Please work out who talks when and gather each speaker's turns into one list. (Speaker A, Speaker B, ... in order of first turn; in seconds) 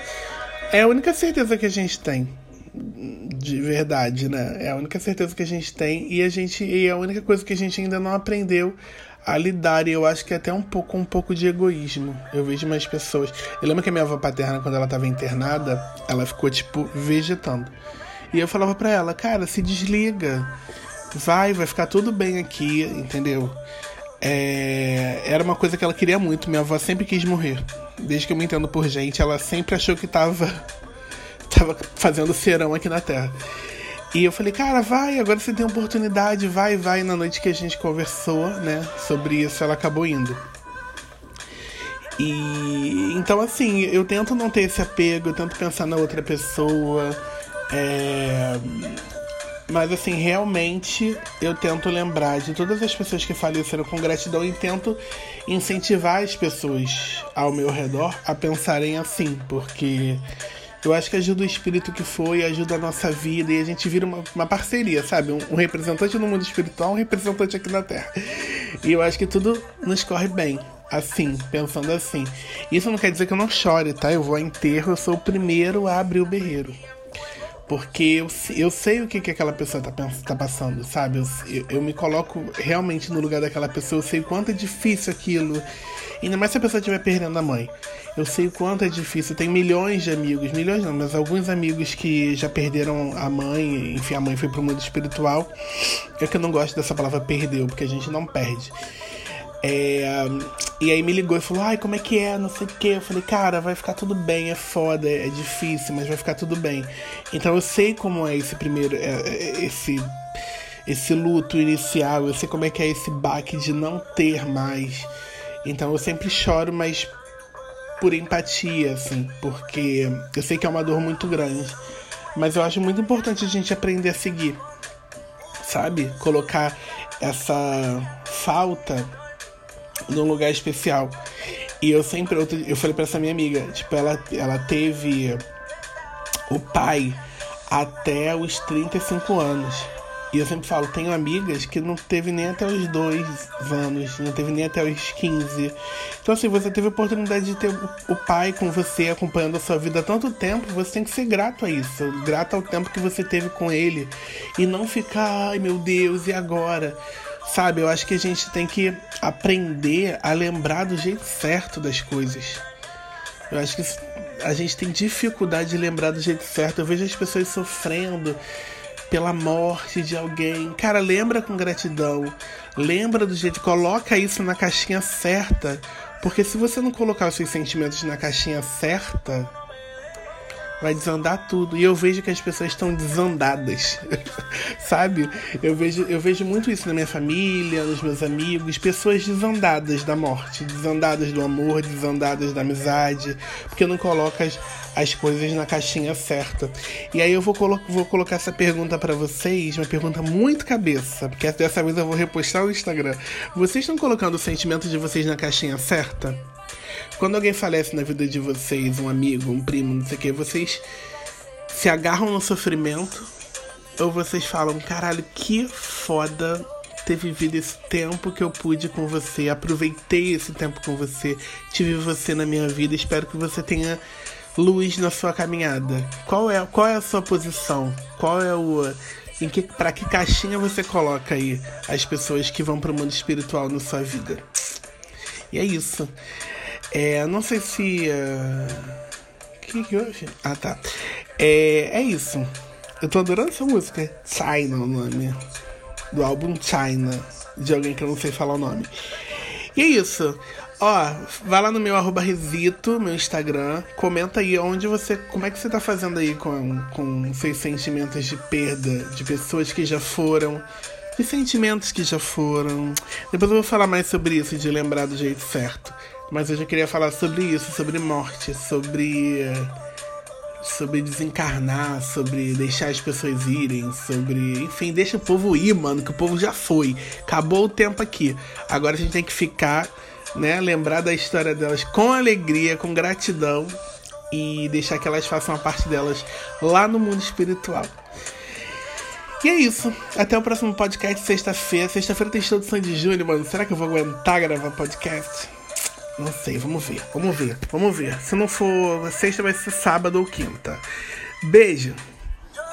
Speaker A: 0.7-17.7, 18.3-20.5, 21.1-23.6, 24.2-30.7, 31.5-33.4, 34.1-40.4, 42.2-49.0, 49.7-60.2, 60.8-76.8, 77.7-85.7, 86.2-98.8, 99.6-110.2, 110.8-115.1, 115.6-117.1, 118.0-121.8, 122.3-124.6, 125.6-129.1, 130.1-131.2, 131.8-135.4, 136.5-162.7, 163.5-168.4, 169.1-179.5, 180.8-206.4, 207.2-210.8, 211.7-213.3, 214.0-224.0, 224.5-234.4, 235.5-236.1, 236.9-239.0, 239.6-242.5, 243.0-245.4, 246.1-269.7, 270.6-283.8, 284.3-287.9, 289.4-295.5, 296.1-300.8, 301.4-302.0